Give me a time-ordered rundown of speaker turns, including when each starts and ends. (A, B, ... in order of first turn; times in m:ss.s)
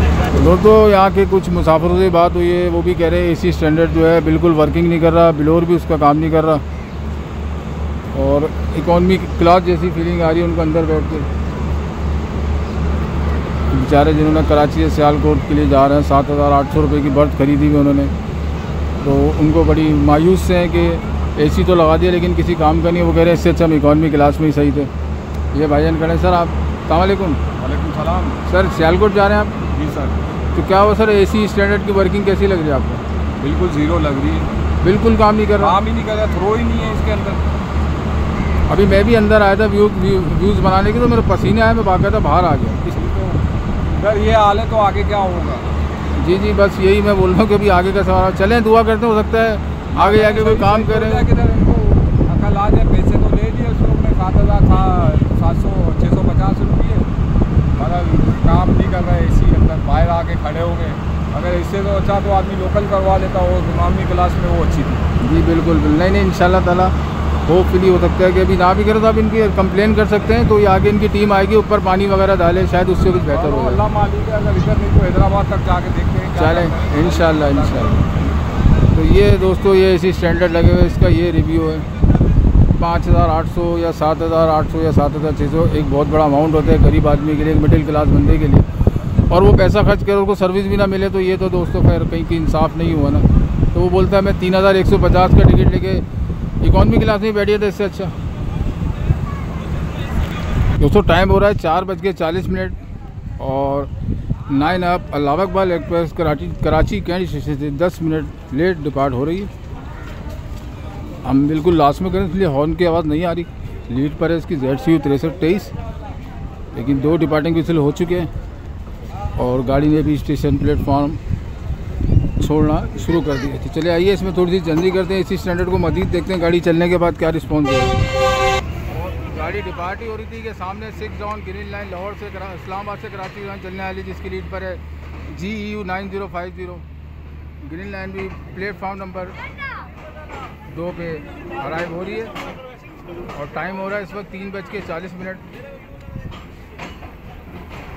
0:00.3-0:06.6 A
0:08.1-0:11.3 A
0:13.7-0:18.1 A
0:19.0-0:24.9 A
0:25.5-0:27.4 A
0:27.6-0:28.4 B
0:28.4-0:29.7 A
0:29.7-0:30.2 B
0:30.5-0:33.0 A
0:33.4-0:34.5 B
0:34.8-0:35.8 A
0:35.6-0:37.4 B
0:38.7-0:42.8 A
0:42.8-0:45.7 B
0:46.2-0:51.2 A
0:50.0-0:57.1 B
0:57.7-1:05.0 B
1:05.2-1:13.8 A
1:13.3-1:18.0 B
1:16.4-1:18.1 A
1:18.9-1:21.9 A
1:22.8-1:28.7 A
1:29.3-1:36.0 A
1:36.6-1:38.1 A
1:40.8-1:42.8 A
1:43.4-1:43.9 A
1:44.5-1:49.5 A
1:51.2-1:55.7 A
1:56.7-1:58.3 A
1:59.4-2:01.2 A
2:02.4-2:08.0 A
2:08.9-2:16.9 A
2:17.6-2:19.4 A
2:20.7-2:22.3 A
2:23.3-2:25.4 A